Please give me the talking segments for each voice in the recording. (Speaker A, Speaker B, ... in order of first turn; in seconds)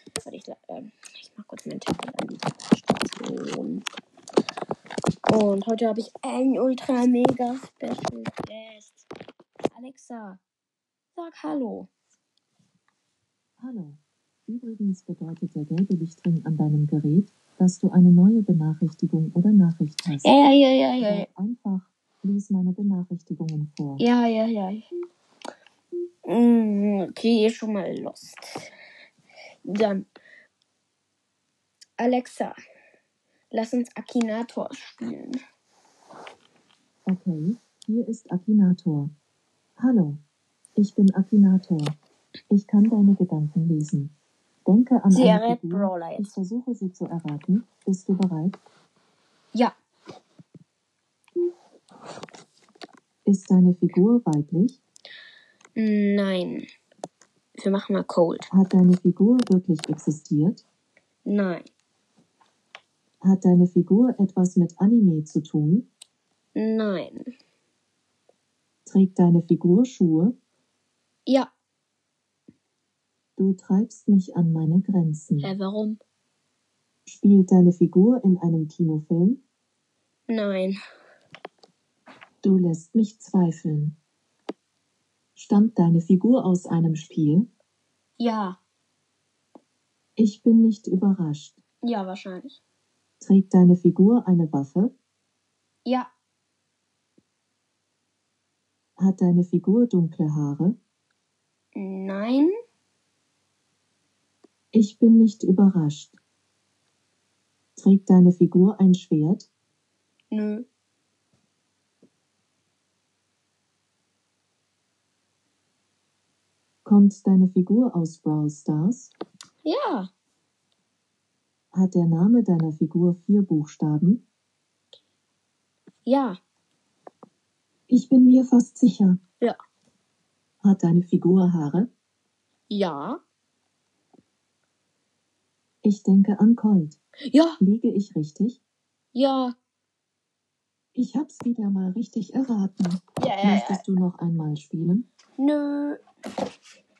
Speaker A: 0.2-3.8, 5.3-9.1, 9.7-10.4, 11.2-11.9, 20.2-21.3, 24.0-24.9, 26.3-28.5, 29.7-30.1, 32.0-32.5, 33.5-35.4, 45.1-46.4, 55.8-56.6, 57.6-58.5, 61.2-61.7, 66.5-67.2, 71.3-71.5, 75.4-76.0, 80.3-80.8, 88.2-88.6, 91.8-92.6, 95.8-96.1, 101.8-102.5, 110.3-110.7, 119.6-120.1, 126.1-126.4, 132.7-133.2, 137.3-137.6, 139.1-139.6, 143.2-143.8, 145.4-146.0
Speaker B: 13.6-20.3, 21.0-24.0, 37.1-39.1, 39.8-40.2, 40.8-42.0, 42.5-44.1, 44.7-48.6, 53.3-54.8, 58.5-60.6, 63.2-65.9, 68.9-70.3, 73.4-75.5, 77.1-79.4, 82.4-84.0, 85.4-87.5, 90.2-91.6, 93.2-94.9, 99.0-100.8, 104.7-106.2, 107.8-109.5, 116.8-119.1, 121.7-124.2, 127.9-129.2, 130.6-131.9, 135.8-137.0, 137.6-138.6, 140.9-145.1